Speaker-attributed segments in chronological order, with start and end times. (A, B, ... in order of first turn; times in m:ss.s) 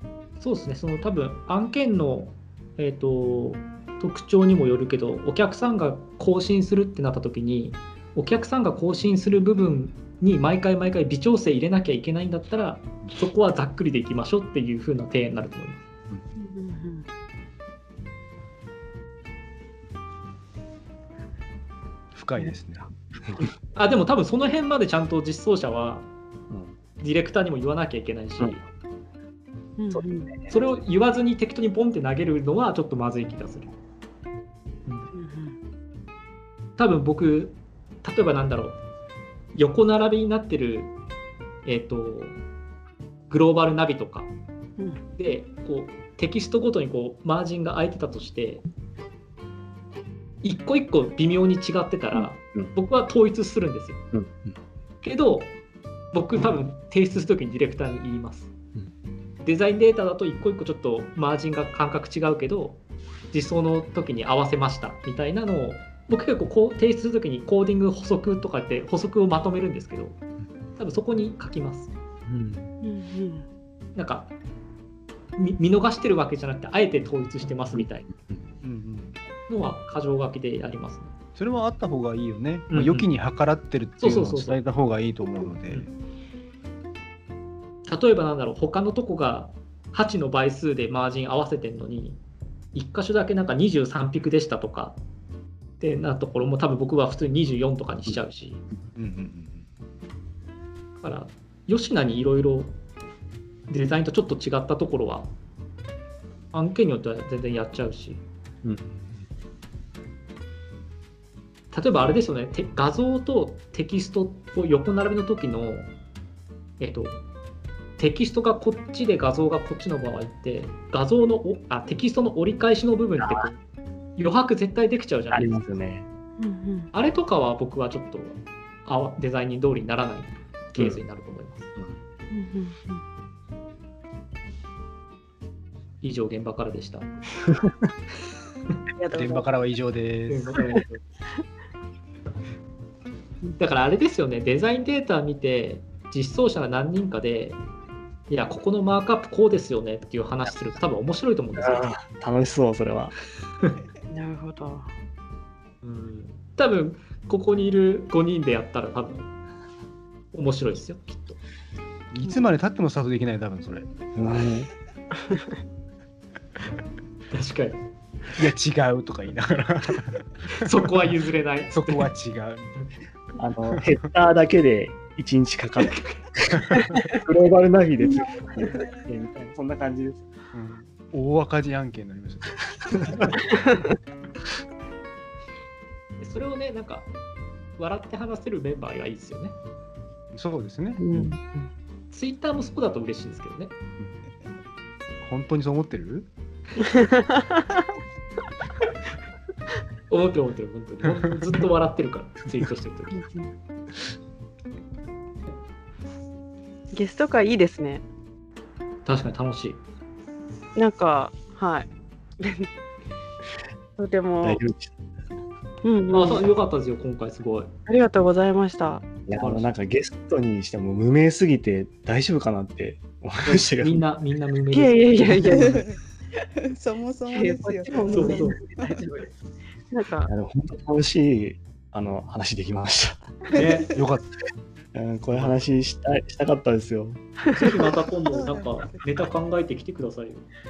0:00.4-0:15.8 A
0:16.4-0:17.0 B
0:22.1-0:22.9 C
0:23.7-0:26.1 A
0:27.0-0:28.6 A
0:29.8-0:30.3 B
0:29.9-0:30.5 D
0:30.5-0:33.7 A
0:35.1-0:35.5 B
0:36.8-0:38.8 A
0:39.5-0:40.9 A
0:41.6-0:42.4 A
0:43.3-0:44.3 A
0:45.2-0:48.6 A
0:50.4-0:54.0 A
0:54.1-0:54.5 D
0:55.0-0:55.5 A
0:56.1-0:58.5 A
0:59.4-1:02.8 A
1:03.3-1:10.2 A
1:10.8-1:11.9 A
1:12.3-1:12.7 D
1:12.8-1:13.4 B
1:13.9-1:14.3 A
1:15.4-1:18.1 A
1:17.8-1:18.4 D
1:18.6-1:19.2 C
1:19.5-1:21.1 A
1:21.3-1:25.9 C
1:22.7-1:23.1 A
1:24.0-1:24.6 A
1:27.9-1:32.2 A
1:32.7-1:35.0 A
1:35.8-1:38.6 A
1:39.0-1:39.7 C
1:41.0-1:42.8 A
1:43.7-1:45.3 A
1:46.5-1:48.2 A
1:48.6-1:49.2 D
1:51.7-1:55.9 A
1:56.8-1:57.2 A
1:58.0-2:03.6 A
2:03.2-2:03.5 D
2:04.2-2:05.6 A
2:05.3-2:06.0 D
2:06.4-2:06.9 B
2:06.9-2:11.7 A
2:12.3-2:13.0 B
2:16.0-2:17.1 A
2:19.0-2:19.5 B
2:19.1-2:20.5 C
2:20.3-2:21.0 A
2:23.6-2:27.6 A
2:28.3-2:31.9 A
2:31.6-2:33.1 D
2:34.1-2:34.9 B
2:35.8-2:39.3 A
2:40.3-2:41.4 A
2:42.1-2:43.9 C
2:44.1-2:44.7 D
2:47.3-2:47.8 A
2:48.4-2:50.2 C
2:50.5-2:52.1 A
2:51.7-2:52.7 C
2:53.4-3:00.2 D
2:53.7-2:53.9 C
2:55.8-2:56.2 A
2:58.6-2:59.1 E
3:00.5-3:03.4 C
3:06.2-3:07.1 A
3:07.8-3:09.6 A
3:10.3-3:11.0 C
3:11.0-3:11.7 B
3:12.1-3:13.7 A
3:15.2-3:16.3 C
3:16.8-3:17.4 B
3:20.1-3:23.2 A
3:23.1-3:23.5 B
3:26.9-3:28.0 B
3:29.0-3:29.8 A
3:30.8-3:31.9 B
3:32.4-3:32.7 B
3:34.0-3:34.6 B
3:34.4-3:34.9 D
3:35.8-3:36.5 B
3:36.1-3:37.7 A
3:37.9-3:39.1 B
3:39.3-3:44.0 D
3:39.4-3:39.7 A
3:43.4-3:45.8 A
3:44.7-3:45.8 B
3:45.4-3:46.0 E
3:46.6-3:49.0 E
3:47.3-3:49.3 B
3:48.1-3:48.6 A
3:49.9-3:50.3 B
3:50.3-3:53.2 D
3:53.5-3:53.9 A
3:53.9-3:54.3 C
3:54.9-3:57.2 D
3:55.3-3:55.7 C
3:57.5-4:00.4 A
3:58.3-3:59.2 E